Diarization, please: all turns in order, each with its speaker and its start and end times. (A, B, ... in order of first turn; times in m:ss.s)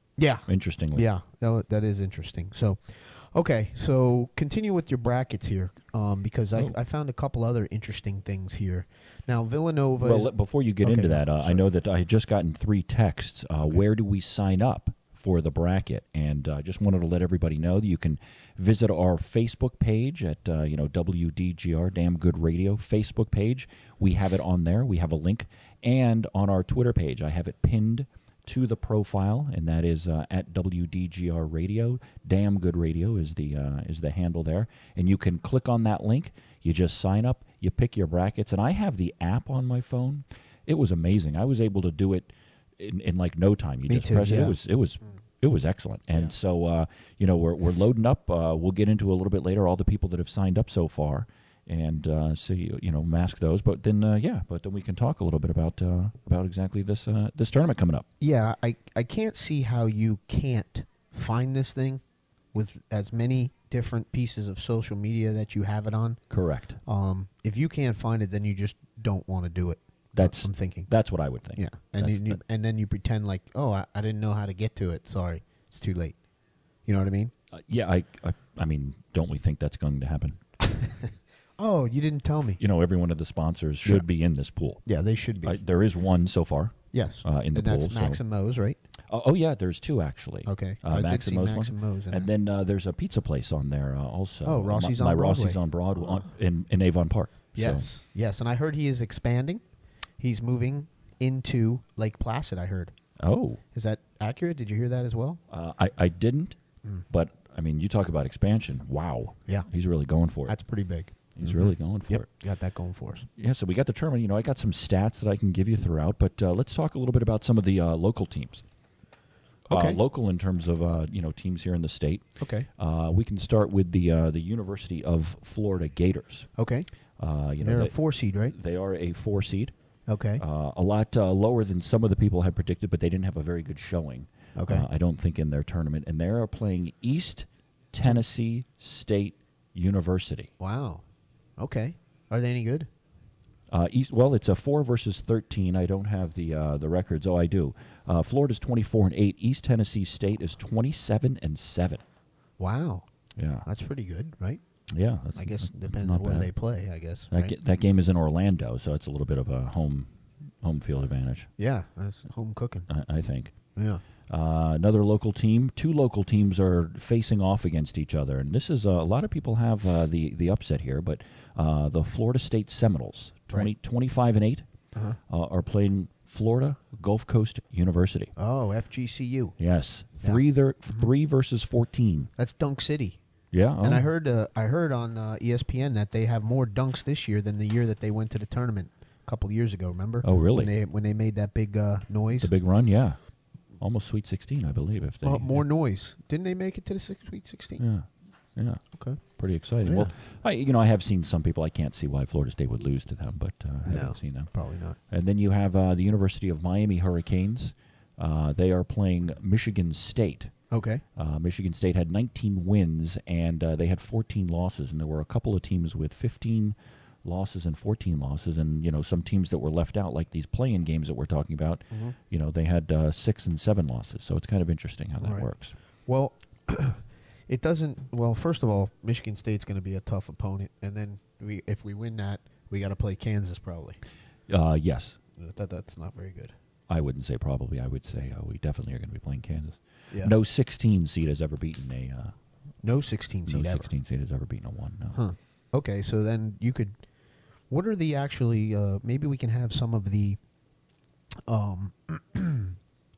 0:00.2-0:11.6 A
0:00.5-0:01.0 B
0:10.0-0:58.0 B
0:43.9-0:44.6 A
0:58.2-1:02.0 A
1:02.5-1:06.2 A
1:06.3-1:06.8 B
1:06.8-1:10.9 A
1:10.1-1:12.4 B
1:11.6-1:16.2 A
1:16.8-1:17.3 A
1:17.5-1:20.4 B
1:20.7-1:21.0 A
1:21.6-1:22.6 A
1:22.6-1:24.8 B
1:24.8-1:25.6 A
1:25.4-1:28.2 B
1:26.9-1:28.8 A
1:29.1-1:37.9 B
1:30.4-1:32.3 A
1:34.4-1:36.2 A
1:37.5-1:39.6 A
1:40.2-1:42.9 A
1:43.2-1:43.6 B
1:43.7-1:45.4 A
1:45.5-1:46.6 B
1:47.1-1:50.6 B
1:50.4-1:53.3 A
1:51.3-1:52.3 B
1:53.4-1:58.6 B
1:59.7-2:00.0 A
1:59.7-2:02.2 B
2:02.4-2:02.7 A
2:02.8-2:06.5 B
2:06.6-2:06.9 A
2:07.2-2:08.0 B
2:07.6-2:08.5 A
2:08.5-2:09.7 B
2:10.1-2:10.4 A
2:10.4-2:20.5 B
2:14.6-2:14.8 A
2:20.6-2:21.0 A
2:21.6-2:22.9 A
2:23.7-2:32.0 B
2:32.6-2:33.1 A
2:33.4-2:33.6 B
2:33.6-2:34.6 A
2:34.9-2:36.5 B
2:35.4-2:37.6 A
2:37.3-2:40.1 B
2:40.6-2:41.5 B
2:41.6-2:42.9 A
2:42.9-2:43.5 B
2:43.8-2:44.0 A
2:44.3-2:54.6 B
2:55.3-2:58.3 B
2:58.4-2:59.6 A
2:59.6-3:02.3 B
3:00.2-3:01.1 A
3:02.4-3:03.2 A
3:03.5-3:04.0 B
3:03.8-3:12.5 A
3:10.2-3:10.7 B
3:12.4-3:13.2 B
3:13.8-3:15.6 B
3:15.2-3:17.8 A
3:17.8-3:24.5 B
3:18.9-3:19.2 A
3:19.8-3:20.1 A
3:23.8-3:25.0 A
3:25.1-3:30.5 B
3:30.7-3:31.0 A
3:31.2-3:45.7 B
3:45.2-3:45.5 A
3:46.1-3:54.0 A
3:54.5-3:55.2 B
3:55.4-3:56.5 A
3:56.9-4:02.3 B
4:02.8-4:03.9 A
4:03.4-4:05.2 B
4:05.1-4:07.0 A
4:07.7-4:10.4 A
4:11.5-4:12.8 A